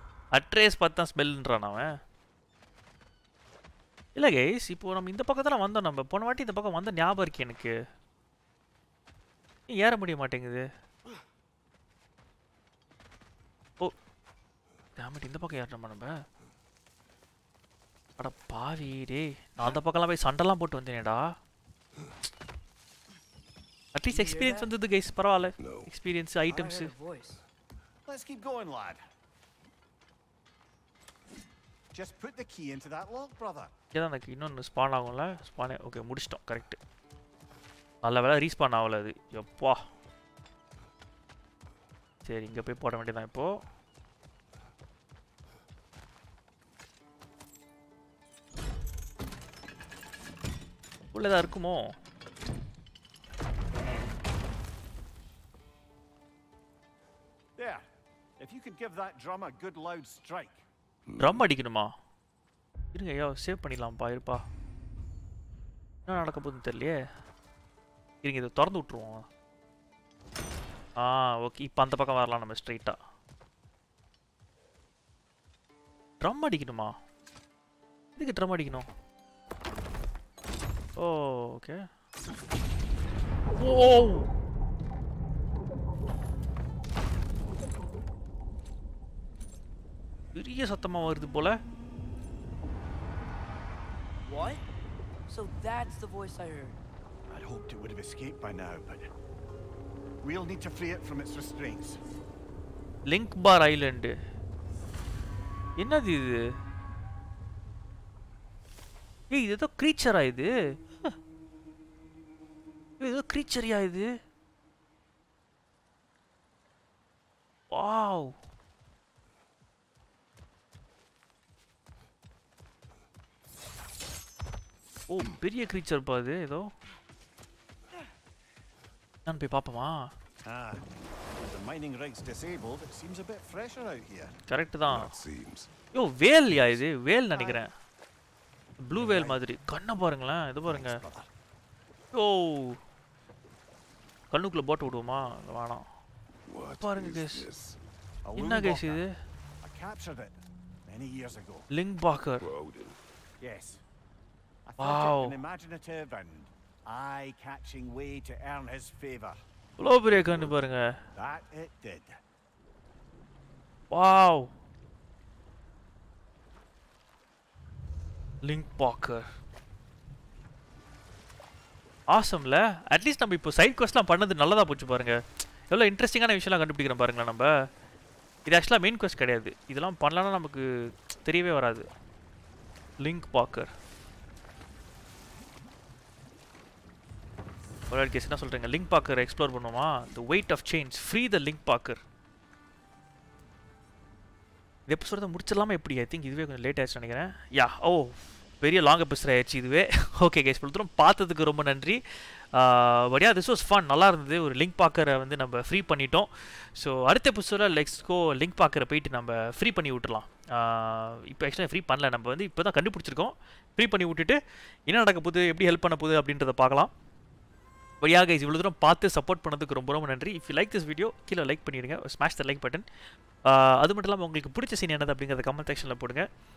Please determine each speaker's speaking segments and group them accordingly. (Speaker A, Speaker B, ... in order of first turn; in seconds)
Speaker A: 0.3-1.9, 4.2-7.7, 9.7-10.7, 15.0-16.1, 18.2-21.3, 23.9-26.9, 33.9-36.8, 38.0-39.8, 42.2-43.6, 51.1-51.9, 61.2-61.9, 62.9-64.4, 66.0-67.0, 68.2-69.3, 71.0-73.0, 76.2-76.9, 78.2-78.9, 81.0-81.8, 83.5-84.3, 90.3-91.6, 103.1-104.2, 105.8-106.5, 109.3-110.5, 113.0-114.1, 117.7-118.3, 125.1-126.7, 129.2-130.1, 134.5-135.2, 135.9-137.7, 138.8-141.0, 142.1-142.8, 144.3-145.9, 146.8-147.5, 148.3-149.1, 151.7-152.5, 154.8-155.4, 159.8-161.0, 163.9-164.5, 168.4-169.2, 172.1-175.2, 175.7-177.5, 178.4-180.6, 181.2-181.8, 183.0-183.7, 187.9-192.0, 194.9-202.0, 202.5-214.3, 214.9-216.9, 218.0-222.8, 223.4-226.3
Speaker B: 24.1-24.7, 26.5-27.4, 94.2-94.6, 95.3-96.8
Speaker C: 25.6-25.9, 61.1-61.5, 134.9-135.7, 146.5-147.8, 152.4-153.0, 160.1-160.6
Speaker D: 28.1-29.0, 31.9-33.7, 57.5-57.8, 58.4-60.6, 97.3-99.1, 100.2-102.0, 130.4-134.4, 137.3-137.6, 138.9-139.4, 140.6-141.3, 148.2-149.1, 149.6-151.7, 153.4-153.8, 154.7-159.4, 161.1-162.2